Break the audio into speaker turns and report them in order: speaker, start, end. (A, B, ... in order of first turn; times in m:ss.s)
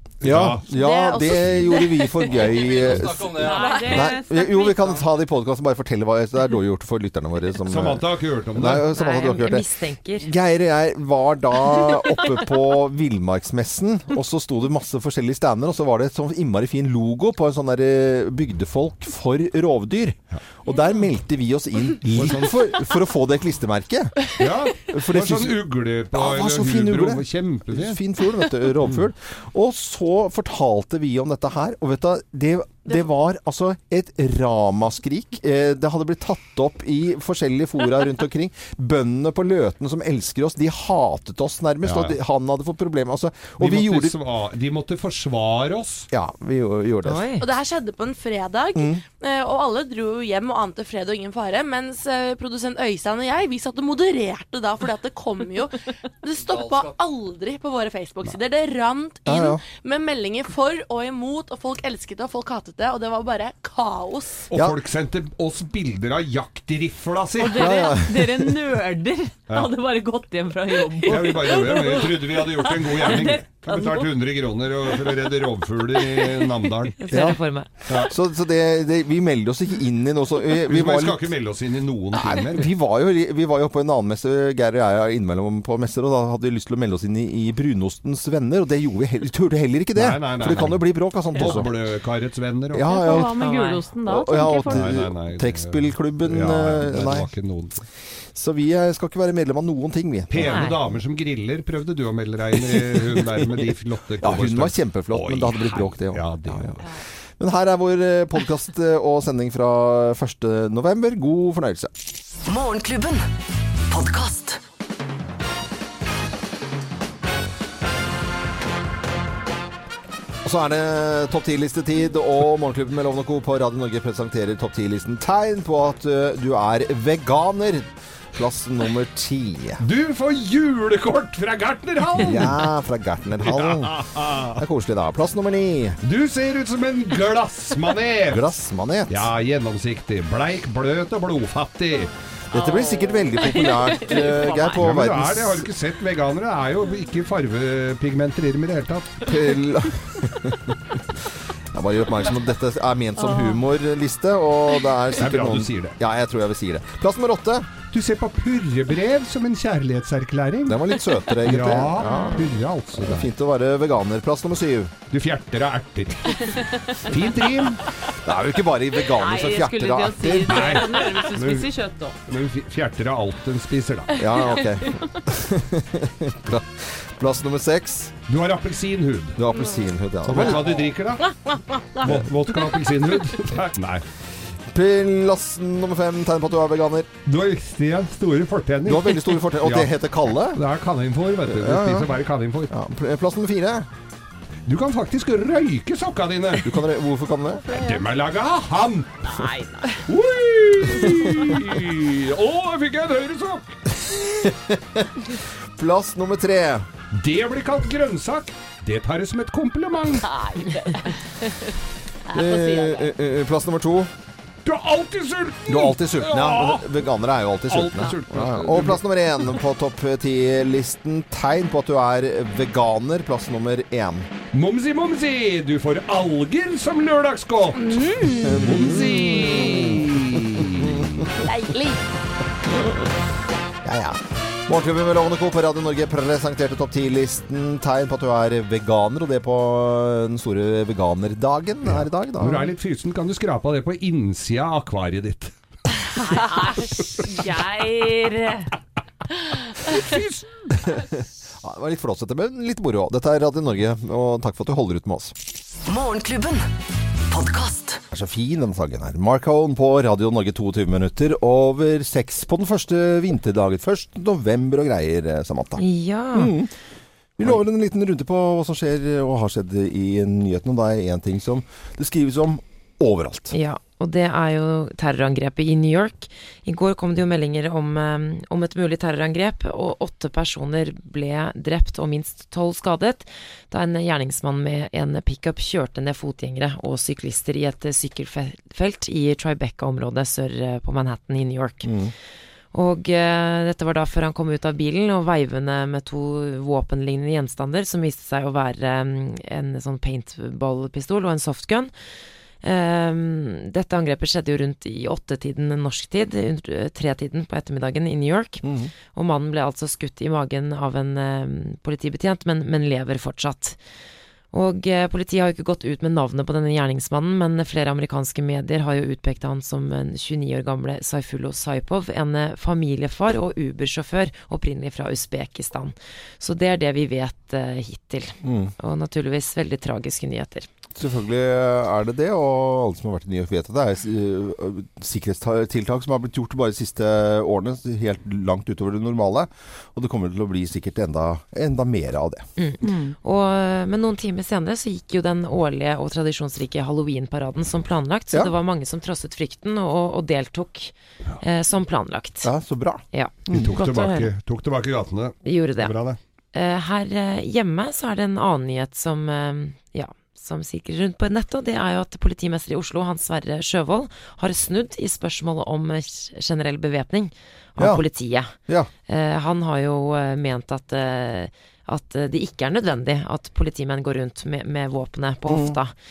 0:00.2-0:00.7 A
0:00.2-0:09.7 B
0:00.7-0:04.2 C
0:01.3-0:01.7 A
0:03.3-0:05.1 D
0:07.7-0:08.9 A
0:08.9-0:10.3 E
0:10.2-0:44.2 B
0:22.1-0:22.8 A
0:24.4-0:28.0 A
0:41.8-0:42.2 A
0:43.6-0:46.1 A
0:46.1-0:47.2 B
0:47.0-0:47.5 E
0:47.4-1:04.5 C
0:48.8-0:49.0 B
0:59.3-0:59.6 B
1:04.5-1:07.8 A
1:04.5-1:04.8 B
1:07.4-1:14.2 D
1:07.6-1:08.6 B
1:11.0-1:17.0 A
1:11.1-1:12.1 C
1:16.1-1:16.5 D
1:17.0-1:17.7 E
1:17.1-1:17.4 B
1:17.9-1:18.1 A
1:17.9-1:21.3 B
1:20.6-1:22.7 A
1:22.2-1:31.7 B
1:29.9-1:33.0 A
1:32.7-1:33.3 B
1:32.9-1:35.0 D
1:33.4-1:33.9 E
1:34.1-1:37.3 B
1:34.7-1:37.8 A
1:38.4-1:40.7 B
1:40.3-1:46.9 A
1:40.4-1:40.8 E
1:42.7-1:43.5 B
1:44.2-1:46.8 B
1:47.4-1:51.9 B
1:52.5-1:53.3 F
1:53.9-1:54.6 F
2:00.4-2:09.8 B
2:09.8-2:12.6 A
2:12.2-2:14.0 B
2:13.4-2:14.6 A
2:14.6-2:16.0 B
2:16.0-2:18.5 A
2:18.3-2:19.3 B
2:19.1-2:22.1 A
2:22.5-2:25.7 B
2:22.5-2:24.8 D
2:24.8-2:29.3 A
2:29.2-2:31.0 B
2:31.7-2:37.7 B
2:33.2-2:33.6 D
2:35.2-2:36.0 A
2:37.9-2:43.3 A
2:40.7-2:44.9 B
2:45.1-2:47.8 A
2:46.4-2:47.0 D
2:48.2-2:50.8 B
2:49.0-2:52.2 D
2:50.5-2:51.7 A
2:52.3-2:54.3 A
2:54.2-2:58.1 B
2:58.3-2:59.4 A
2:59.4-3:00.9 B
3:00.2-3:01.4 A
3:02.0-3:04.0 A
3:04.7-3:07.1 B
3:07.2-3:12.7 A
3:08.8-3:10.6 B
3:11.5-3:12.1 B
3:12.7-3:13.9 B
3:14.6-3:16.8 A
3:16.6-3:17.7 B
3:17.6-3:18.0 D
3:17.7-3:19.5 A
3:19.3-3:20.0 D
3:20.1-3:23.8 A
3:24.0-3:26.9 B
3:27.1-3:30.4 A
3:32.3-3:34.1 B
3:32.5-3:33.1 D
3:34.6-3:36.9 A
3:35.7-3:44.3 B
3:37.7-3:39.0 A
3:44.5-3:51.4 A
3:47.8-3:48.3 C
3:48.4-3:50.0 B
3:49.2-3:49.8 D
3:50.6-3:51.0 B
3:51.4-3:52.0 C
3:53.8-4:02.7 B
4:01.9-4:05.5 A
4:06.1-4:08.7 D
4:07.2-4:07.4 A
4:09.8-4:10.7 A
4:10.8-4:15.3 B
4:15.8-4:16.7 F
4:17.3-4:18.0 F
4:18.1-4:25.8 B
4:25.8-4:26.6 E
4:26.3-4:26.7 B
4:27.4-4:33.5 B
4:33.5-4:51.9 E
4:51.8-4:52.1 B
4:52.7-5:01.9 E
5:02.6-5:13.8 E
5:08.6-5:08.9 B
5:14.5-5:30.7 E
5:28.4-5:28.7 B
5:31.0-5:42.5 B
5:42.6-5:52.5 E
5:42.8-5:43.2 D
5:52.4-5:53.7 B
5:53.1-5:54.3 E
5:53.5-5:56.2 A
5:55.4-5:56.0 E
5:56.5-6:08.6 E
6:09.1-6:15.9 E
6:15.5-6:15.8 B